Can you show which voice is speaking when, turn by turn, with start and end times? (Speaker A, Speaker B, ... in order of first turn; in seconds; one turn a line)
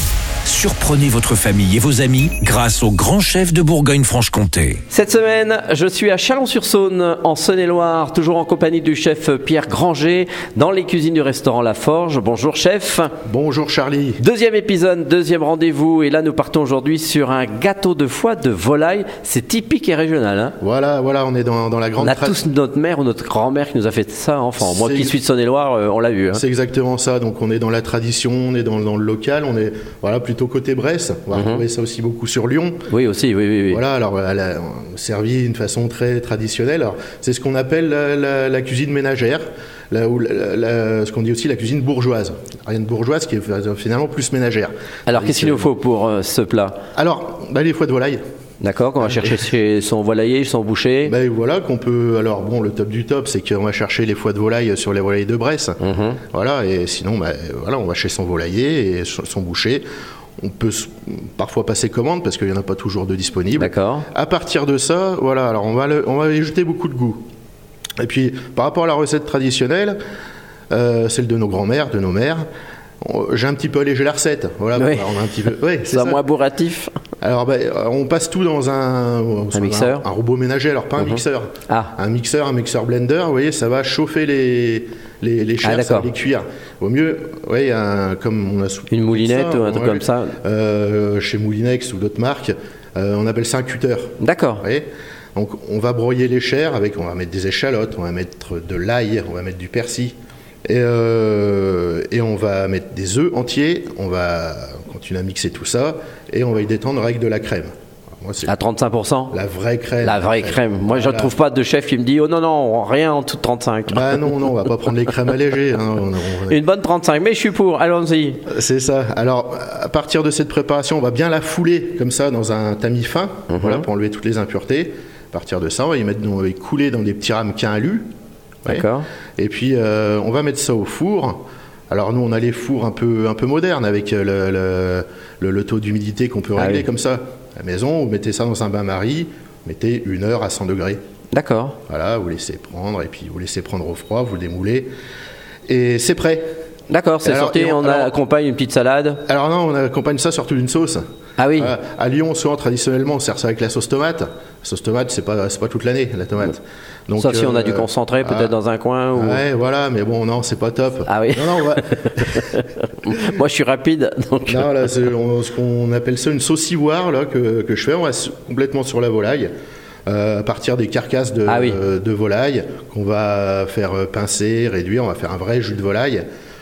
Speaker A: 0.4-4.8
Speaker B: 4.9-13.1
Speaker C: 13.2-14.2
Speaker B: 14.2-20.6
Speaker C: 20.6-22.4
Speaker B: 22.0-26.4
Speaker C: 24.6-25.1
Speaker C: 26.3-32.8
Speaker B: 31.3-31.6
Speaker B: 32.9-33.8
Speaker C: 33.7-45.7
Speaker B: 45.1-46.8
Speaker C: 46.9-48.2
Speaker B: 48.6-51.1
Speaker C: 49.0-49.3
Speaker C: 51.0-55.8
Speaker B: 55.8-56.2
Speaker C: 56.3-59.8
Speaker C: 60.4-67.2
Speaker B: 63.5-64.0
Speaker C: 68.0-70.0
Speaker C: 70.7-72.4
Speaker C: 73.0-76.2
Speaker B: 74.8-75.1
Speaker B: 75.9-76.9
Speaker C: 77.2-100.1
Speaker B: 79.5-80.0
Speaker B: 81.0-81.9
Speaker B: 85.6-86.1
Speaker B: 88.9-90.3
Speaker B: 94.2-94.6
Speaker C: 100.7-108.5
Speaker B: 108.5-109.3
Speaker C: 109.3-111.3
Speaker B: 110.0-114.3
Speaker C: 113.9-116.6
Speaker B: 116.5-118.4
Speaker C: 118.5-128.0
Speaker B: 123.5-123.8
Speaker B: 128.7-129.1
Speaker C: 128.7-131.4
Speaker C: 131.9-141.0
Speaker B: 136.6-136.8
Speaker B: 141.3-141.8
Speaker C: 141.9-144.9
Speaker C: 145.7-146.4
Speaker B: 146.9-149.2
Speaker C: 147.2-148.1
Speaker C: 149.2-151.0
Speaker B: 151.4-151.7
Speaker C: 151.6-158.5
Speaker B: 157.2-159.4
Speaker C: 159.1-162.4
Speaker B: 161.1-164.7
Speaker C: 164.4-169.5
Speaker C: 170.1-176.2
Speaker B: 171.4-171.8